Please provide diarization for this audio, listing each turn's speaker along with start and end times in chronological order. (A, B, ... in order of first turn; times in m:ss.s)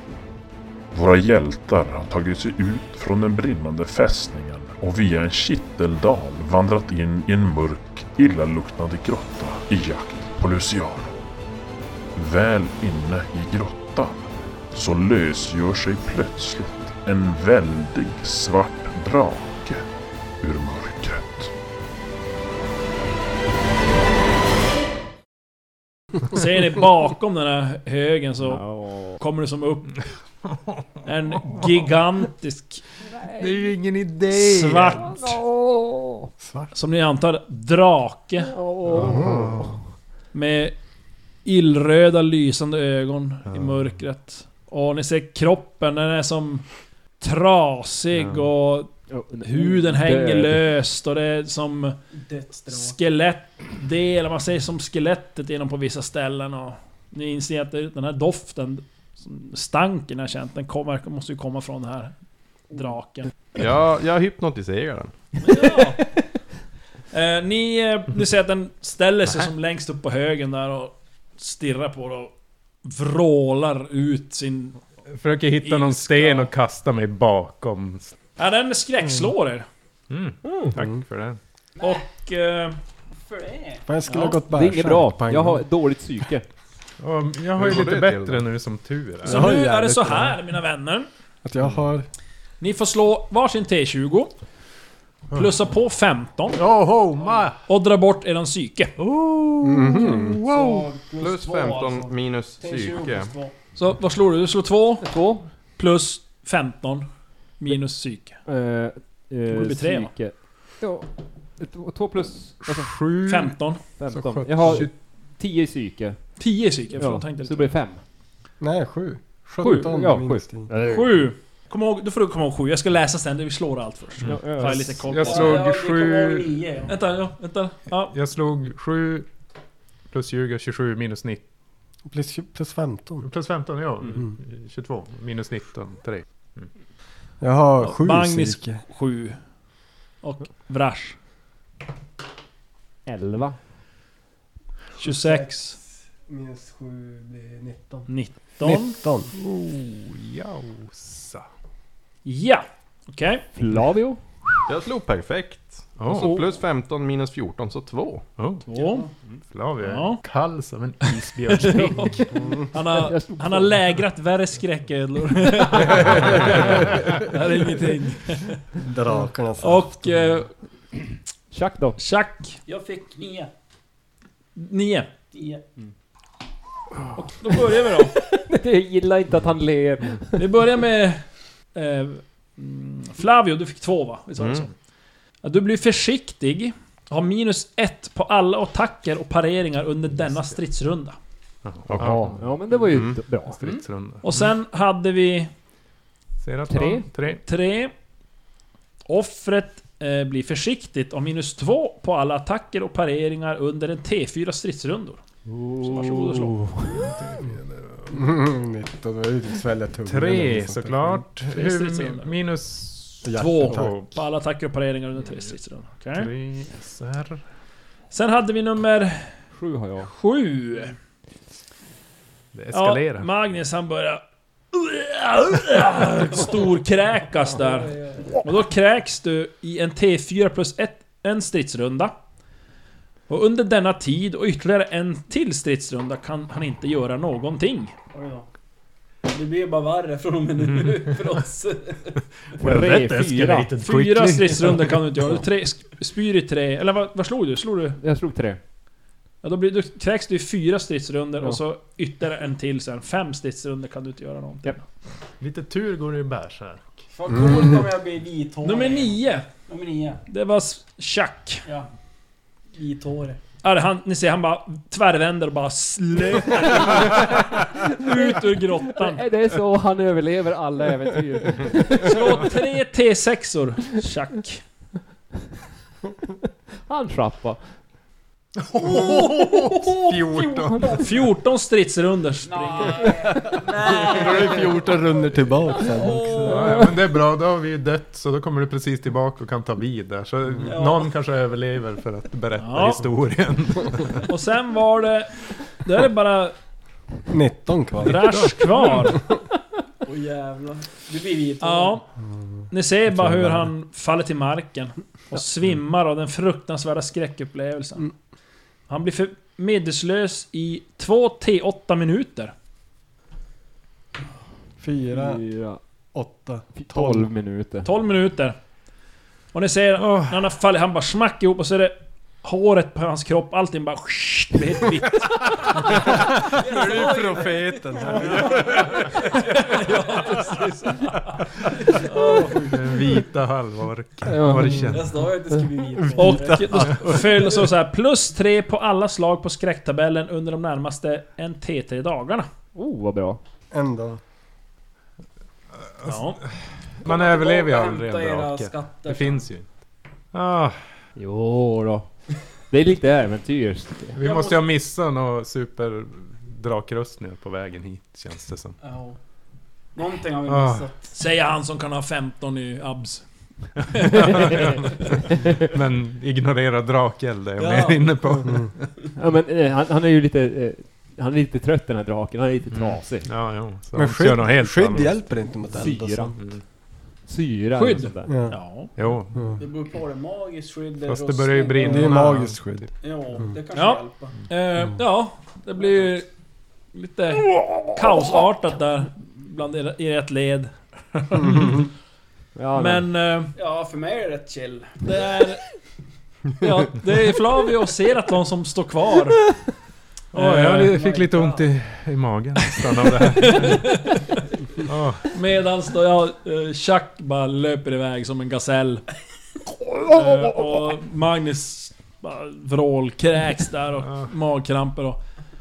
0:00.9-0:11.2 A
0:12.1-0:19.8 A
0:20.4-0:21.5 A
0:26.3-0:29.9 B
0:28.4-0:29.2 C
0:30.5-0:30.8 D
0:31.0-0:32.8 B
0:33.1-0:33.8 C
0:33.4-0:35.1 D
0:34.3-0:35.4 B
0:35.0-0:36.3 C
0:36.7-0:38.5 B
0:38.4-0:39.4 C
0:38.9-0:39.6 E
0:38.9-0:39.8 D
0:40.3-0:40.8 B
0:41.4-0:46.6 B
0:43.5-0:44.0 D
0:47.2-0:52.0 B
0:48.1-0:48.4 D
0:49.1-0:50.7 C
0:52.1-0:53.0 F
0:52.7-1:02.2 B
1:02.7-1:03.3 B
1:03.6-1:05.3 G
1:05.4-1:06.1 B
1:07.1-1:12.3 B
1:12.8-1:14.8 B
1:15.1-1:18.1 D
1:15.6-1:16.5 B
1:18.4-1:19.6 B
1:20.1-1:21.4 D
1:20.4-1:20.7 G
1:20.7-1:21.0 E
1:21.8-1:22.0 F
1:21.8-1:22.8 B
1:23.1-1:23.9 F
1:23.9-1:25.6 E
1:24.0-1:24.4 B
1:24.4-1:26.4 C
1:27.0-1:29.5 D
1:27.6-1:28.4 G
1:29.2-1:30.4 E
1:29.2-1:31.1 B
1:31.4-1:32.1 E
1:32.6-1:34.3 B
1:35.3-1:36.6 B
1:36.5-1:37.6 D
1:37.7-1:38.9 B
1:39.0-1:40.9 D
1:39.6-1:40.4 E
1:40.4-1:43.5 F
1:41.2-1:43.3 G
1:43.7-1:48.4 B
1:45.0-1:45.5 C
1:48.4-1:52.9 C
1:49.5-1:50.1 B
1:52.6-1:53.6 D
1:53.2-1:53.8 B
1:54.0-1:58.0 C
1:54.1-1:54.9 E
1:54.6-1:54.9 D
1:56.4-1:57.7 B
1:58.6-2:00.7 E
1:59.6-2:01.2 C
2:00.9-2:05.6 B
2:04.2-2:06.6 D
2:04.2-2:05.0 C
2:05.1-2:06.9 F
2:06.9-2:08.1 B
2:08.1-2:09.3 D
2:10.1-2:11.4 D
2:12.1-2:13.3 E
2:13.2-2:16.7 D
2:17.4-2:18.8 E
2:17.8-2:19.4 B
2:20.2-2:21.2 B
2:23.0-2:23.6 C
2:25.0-2:25.8 B
2:25.0-2:29.3 E
2:28.1-2:29.0 B
2:29.3-2:31.4 D
2:32.2-2:33.4 B
2:33.5-2:34.5 C
2:34.6-2:38.3 G
2:36.0-2:36.3 D
2:36.1-2:36.6 C
2:38.4-2:38.7 D
2:38.7-2:39.1 B
2:38.7-2:39.2 F
2:39.4-2:42.2 D
2:39.8-2:40.2 B
2:41.6-2:48.6 B
2:41.7-2:43.9 C
2:46.0-2:46.3 D
2:48.8-2:49.9 E
2:49.6-2:50.5 B
2:51.5-2:52.0 C
2:52.0-2:52.6 B
2:52.6-2:53.5 F
2:54.6-2:55.1 B
2:55.3-2:55.6 F
2:57.2-2:58.2 B
2:58.4-3:00.4 C
3:00.4-3:04.7 B
3:04.4-3:04.7 G
3:05.4-3:11.2 B
3:11.6-3:12.5 D
3:11.9-3:13.2 G
3:12.0-3:13.8 C
3:13.5-3:14.5 D
3:14.2-3:15.5 B
3:16.4-3:17.4 D
3:16.7-3:17.0 C
3:17.4-3:17.9 B
3:19.1-3:25.2 B
3:25.5-3:27.1 C
3:25.8-3:26.6 B
3:26.9-3:28.2 D
3:28.1-3:31.2 E
3:30.0-3:34.1 D
3:31.5-3:32.3 B
3:33.2-3:34.0 E
3:33.3-3:36.3 B
3:36.1-3:37.4 D
3:38.1-3:39.4 B
3:39.5-3:40.1 C
3:40.1-3:41.0 B
3:42.5-3:43.3 D
3:42.7-3:52.2 B
3:47.6-3:48.3 F
3:53.3-3:57.9 B
3:58.1-3:58.5 F
3:59.3-4:02.2 F
4:00.6-4:01.2 D
4:02.6-4:03.8 C
4:02.6-4:04.9 D
4:03.8-4:08.0 B
4:08.0-4:08.6 C
4:09.4-4:14.8 B
4:15.4-4:17.0 D
4:17.1-4:20.2 F
4:18.6-4:19.5 B
4:20.3-4:21.6 B
4:22.7-4:23.4 F
4:23.6-4:29.2 B
4:28.1-4:28.4 C
4:28.9-4:32.5 C
4:32.0-4:34.6 B
4:36.8-4:37.6 C
4:38.6-4:40.9 D
4:39.0-4:39.7 F
4:40.3-4:41.0 F
4:40.9-4:43.1 B
4:42.4-4:44.8 F
4:43.8-4:46.6 E
4:45.6-4:46.8 F
4:46.4-4:54.2 D
4:50.6-4:51.1 F
4:52.6-4:53.0 B
4:54.3-4:56.6 B
4:57.3-4:59.1 E
4:58.0-4:59.2 B
5:00.0-5:02.0 F
5:01.6-5:02.0 B
5:02.7-5:08.1 B
5:03.3-5:03.6 C
5:08.9-5:12.5 B
5:14.8-5:15.4 E
5:15.1-5:15.8 C
5:16.1-5:17.2 E
5:16.8-5:17.9 C
5:17.8-5:18.6 B
5:19.5-5:26.0 B
5:20.0-5:20.4 D
5:26.0-5:31.3 F
5:26.6-5:28.8 E
5:29.5-5:31.2 B
5:31.9-5:32.7 F
5:32.1-5:32.5 B
5:32.5-5:35.3 D
5:34.2-5:34.9 C
5:34.8-5:37.6 F
5:36.0-5:37.5 E
5:36.2-5:42.5 B
5:42.7-5:43.4 C
5:43.7-5:44.2 E
5:45.8-5:46.5 D
5:46.0-5:46.4 B
5:47.0-5:49.5 F
5:47.0-5:49.7 D
5:50.3-5:50.8 D
5:51.2-5:52.1 C
5:52.6-5:54.2 C
5:54.1-5:58.8 D
5:54.2-5:54.6 F
5:58.8-5:59.2 F
5:59.9-6:01.1 F
6:00.5-6:00.9 D
6:01.1-6:03.3 B
6:03.9-6:04.6 B
6:04.0-6:08.8 D
6:07.6-6:08.3 F
6:09.2-6:13.3 C
6:12.7-6:15.3 D
6:13.9-6:16.4 E
6:15.7-6:16.4 C
6:16.4-6:16.6 D
6:17.2-6:18.5 C
6:17.7-6:18.9 B
6:18.3-6:18.6 E
6:18.9-6:19.5 D
6:19.3-6:19.6 E
6:19.6-6:22.2 F
6:21.0-6:22.6 D
6:21.8-6:22.9 E
6:23.0-6:24.4 F
6:23.7-6:26.3 B
6:26.9-6:31.8 B
6:31.4-6:31.9 E
6:32.5-6:33.1 C
6:32.7-6:33.5 B
6:33.6-6:35.4 F
6:35.0-6:35.6 B
6:36.6-6:39.5 B
6:40.3-6:44.0 D
6:40.3-6:41.0 B
6:40.8-6:41.7 F
6:43.4-6:44.2 B
6:44.8-6:45.3 D
6:45.3-6:49.1 B
6:50.1-6:55.2 B
6:54.0-6:54.3 D